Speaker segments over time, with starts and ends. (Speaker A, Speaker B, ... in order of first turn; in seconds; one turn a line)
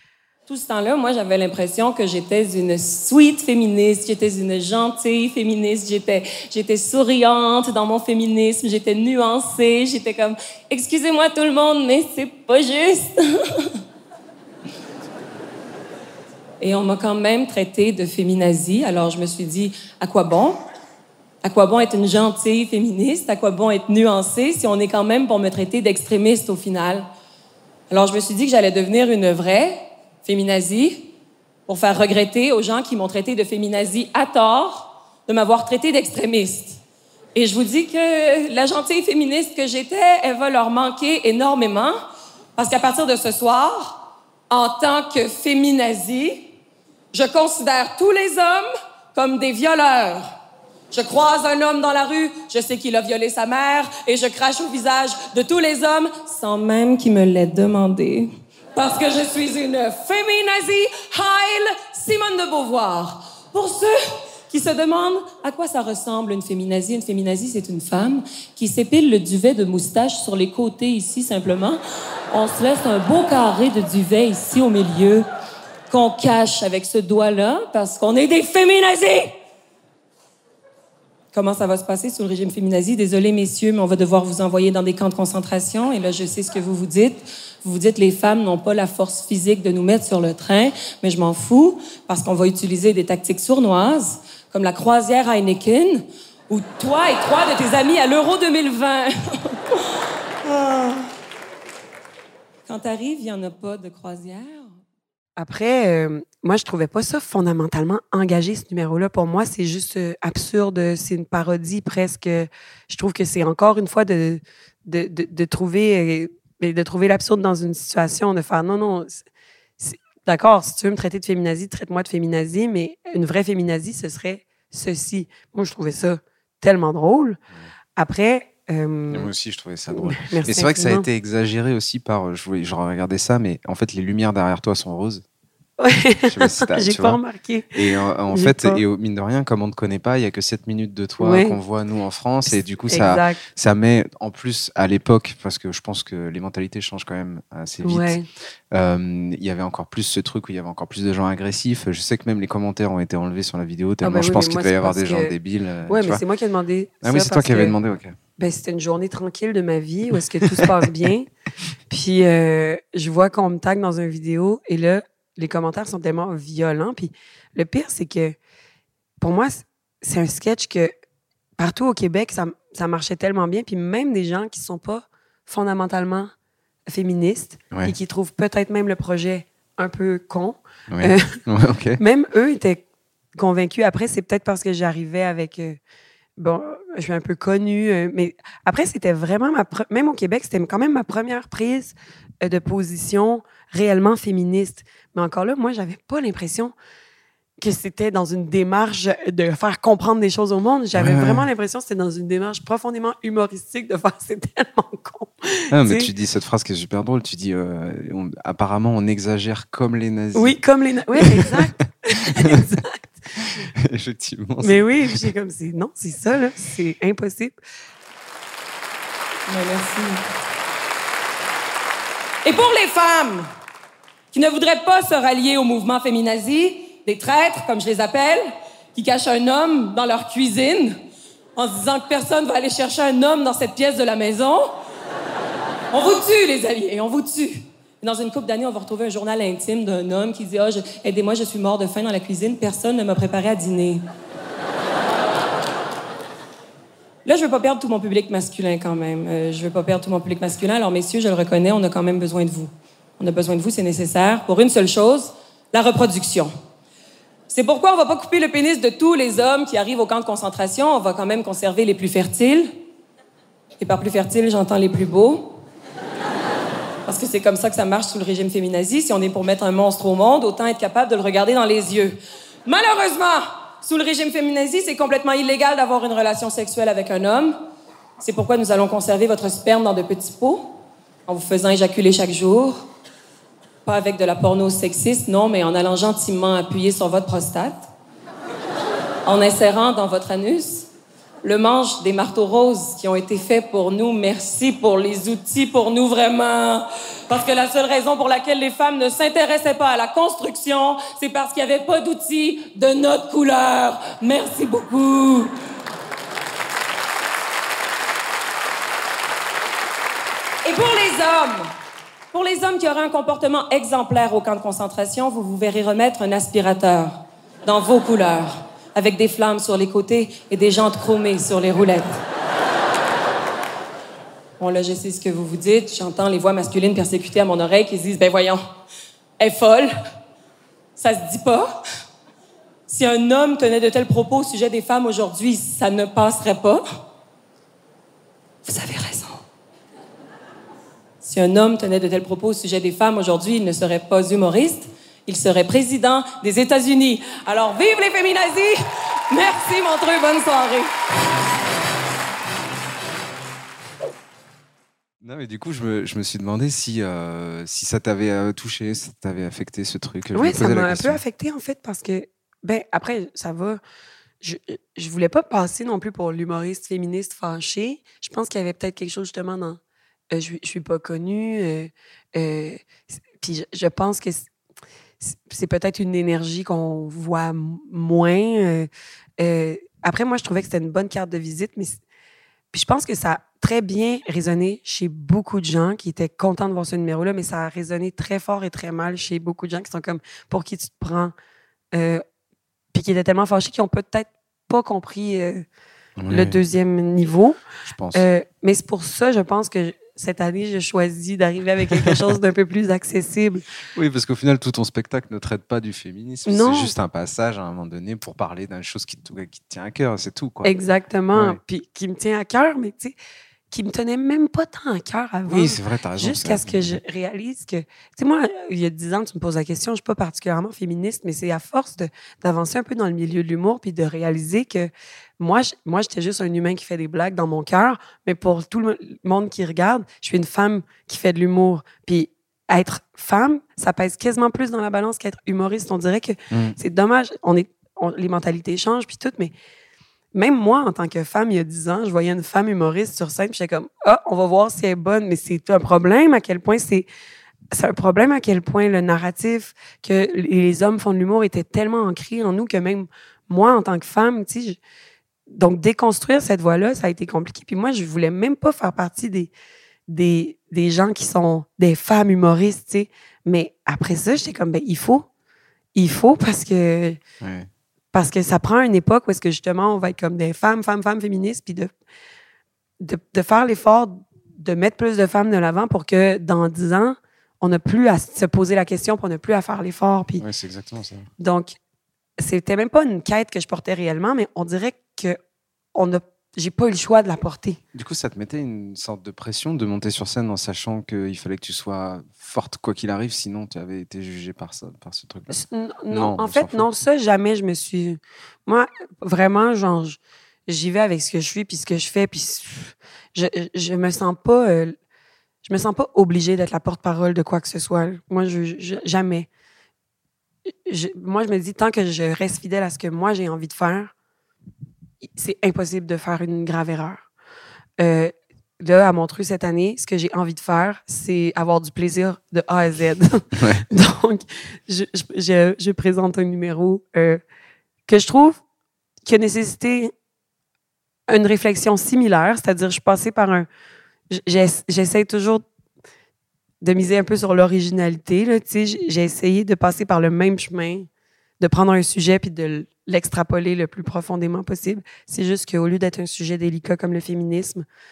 Speaker A: 0.5-13.8
Speaker A: 16.6-20.6
Speaker A: 21.4-27.1
Speaker A: 27.9-31.1
Speaker A: 31.7-36.8
Speaker A: 37.3-42.0
Speaker A: 42.6-46.5
Speaker A: 47.1-50.3
Speaker A: 50.9-64.0
Speaker A: 64.5-75.2
Speaker A: 75.9-79.3
Speaker A: 81.3-99.8
Speaker A: 100.4-101.1
Speaker A: 102.7-104.7
Speaker B: 105.4-119.2
Speaker B: 119.8-127.4
Speaker B: 128.0-129.3
Speaker C: 129.1-135.2
Speaker B: 129.9-131.1
Speaker B: 135.8-137.7
Speaker C: 136.3-137.2
Speaker C: 137.7-148.2
Speaker B: 138.3-138.8
Speaker B: 141.2-141.6
Speaker B: 142.5-143.4
Speaker B: 147.8-148.2
Speaker C: 148.7-156.2
Speaker B: 154.0-155.3
Speaker B: 155.9-157.8
Speaker C: 157.0-158.2
Speaker B: 158.4-161.3
Speaker C: 160.4-160.8
Speaker B: 161.9-168.4
Speaker B: 169.2-170.9
Speaker B: 171.6-176.3
Speaker B: 176.9-181.4
Speaker C: 180.9-182.0
Speaker B: 182.0-182.8
Speaker B: 183.3-185.8
Speaker B: 186.4-196.7
Speaker B: 197.6-206.1
Speaker C: 200.9-201.4
Speaker C: 205.7-210.6
Speaker B: 210.3-213.0
Speaker C: 211.1-211.6
Speaker C: 213.4-215.3
Speaker B: 214.6-217.6
Speaker A: 219.5-220.2
Speaker A: 222.4-223.5
Speaker A: 224.3-231.0
Speaker A: 231.6-234.7
Speaker A: 235.9-244.0
Speaker A: 247.2-256.5
Speaker A: 257.5-262.7
Speaker A: 263.8-265.6
Speaker A: 267.1-277.5
Speaker A: 278.2-280.8
Speaker A: 281.3-282.8
Speaker A: 283.9-287.8
Speaker A: 289.2-290.9
Speaker A: 291.4-305.5
Speaker A: 310.6-311.7
Speaker A: 312.3-322.2
Speaker A: 324.6-328.6
Speaker A: 329.4-329.9
Speaker A: 331.0-331.8
Speaker A: 332.9-336.8
Speaker A: 338.6-339.4
Speaker A: 341.2-350.9
Speaker C: 355.2-361.2
Speaker B: 360.3-363.8
Speaker B: 364.4-369.8
Speaker B: 370.3-374.5
Speaker B: 375.2-378.9
Speaker B: 379.4-382.0
Speaker B: 382.7-391.3
Speaker B: 391.9-392.2
Speaker B: 392.9-395.6
Speaker C: 396.2-396.6
Speaker B: 396.3-397.6
Speaker C: 397.9-398.2
Speaker B: 398.1-403.6
Speaker C: 403.9-410.7
Speaker B: 406.4-406.9
Speaker B: 410.6-413.1
Speaker C: 411.3-411.6
Speaker B: 413.7-439.5
Speaker C: 415.4-417.0
Speaker C: 436.5-436.8
Speaker B: 440.3-447.1
Speaker B: 447.7-454.8
Speaker B: 455.5-459.5
Speaker B: 460.1-465.2
Speaker B: 465.9-467.2
Speaker C: 467.4-467.7
Speaker B: 468.1-471.9
Speaker B: 473.0-480.4
Speaker C: 480.4-481.3
Speaker B: 481.4-481.7
Speaker B: 482.4-485.4
Speaker B: 485.9-487.8
Speaker C: 487.9-495.5
Speaker B: 495.5-504.9
Speaker C: 496.1-496.9
Speaker B: 505.6-509.5
Speaker B: 510.9-514.1
Speaker B: 515.4-517.3
Speaker B: 518.0-527.4
Speaker C: 523.6-523.8
Speaker B: 528.1-528.6
Speaker B: 529.2-530.1
Speaker B: 531.3-533.7
Speaker B: 534.3-535.6
Speaker B: 536.8-541.1
Speaker B: 541.6-547.8